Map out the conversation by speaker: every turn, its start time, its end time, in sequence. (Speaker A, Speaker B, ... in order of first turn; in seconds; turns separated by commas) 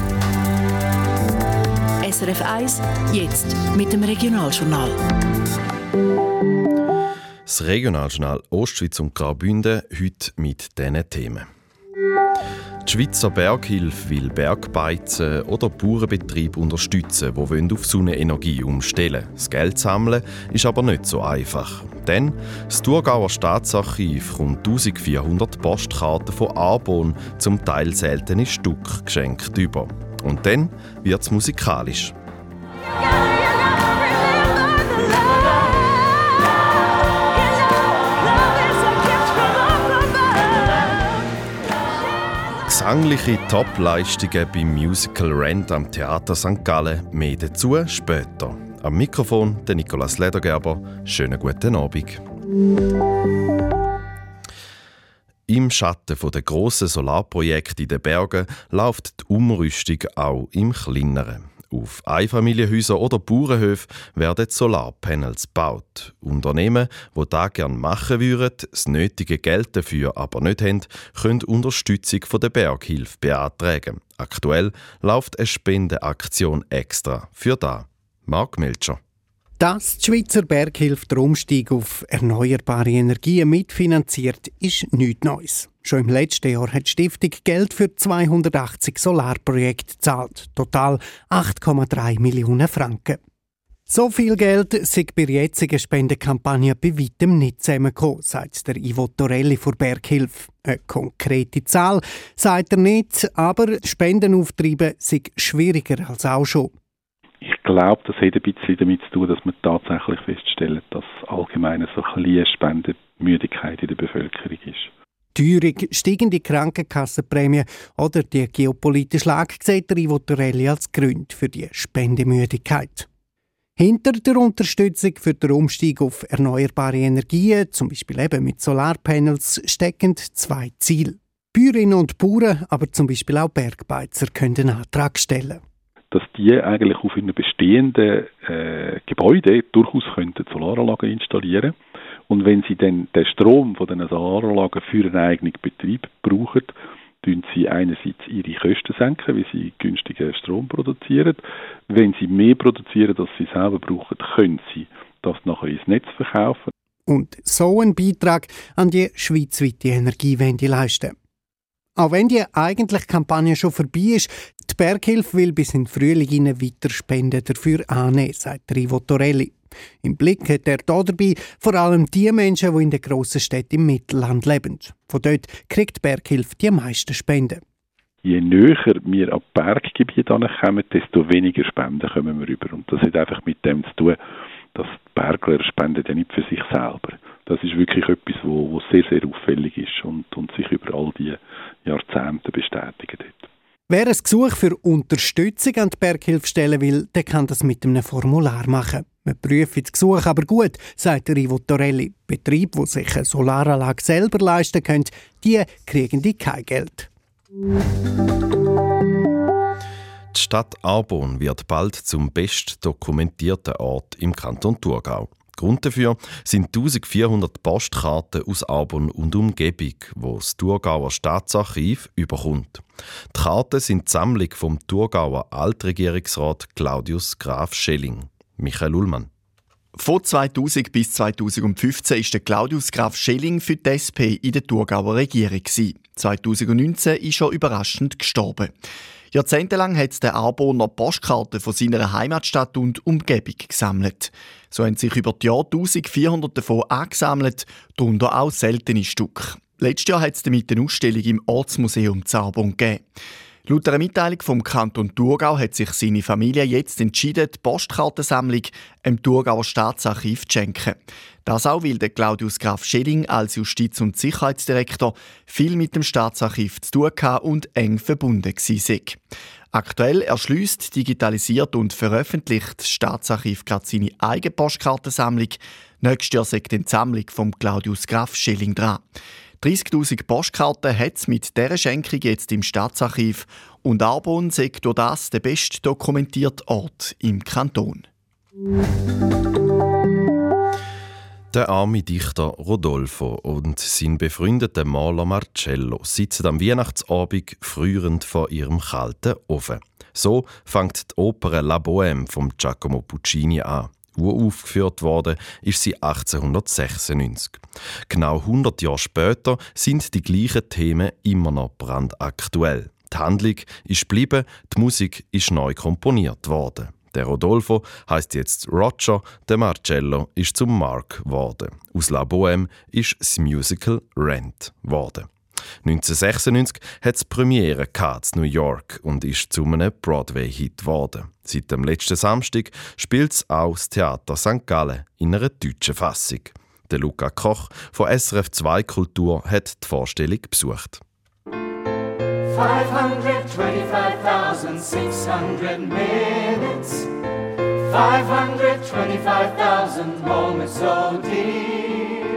Speaker A: 2.0-5.0, Speaker B: 7.5-11.5, Speaker B: 12.8-32.1, Speaker B: 42.6-52.2, Speaker B: 55.5-79.0, Speaker C: 79.6-93.2, Speaker C: 93.9-106.7, Speaker D: 107.4-114.9, Speaker C: 115.3-123.1, Speaker C: 123.8-135.6, Speaker D: 136.1-141.8, Speaker D: 142.3-156.7, Speaker C: 157.1-161.1, Speaker C: 162.0-177.6, Speaker D: 178.2-184.2, Speaker D: 184.7-193.5, Speaker C: 193.9-207.1, Speaker B: 210.3-229.3, Speaker E: 230.0-238.7, Speaker E: 239.3-253.1, Speaker E: 253.7-269.2, Speaker E: 269.7-279.1, Speaker E: 279.6-288.1, Speaker B: 291.5-325.3, Speaker B: 325.8-341.0, Speaker F: 342.6-346.8, Speaker F: 348.2-349.2, Speaker F: 349.8-351.9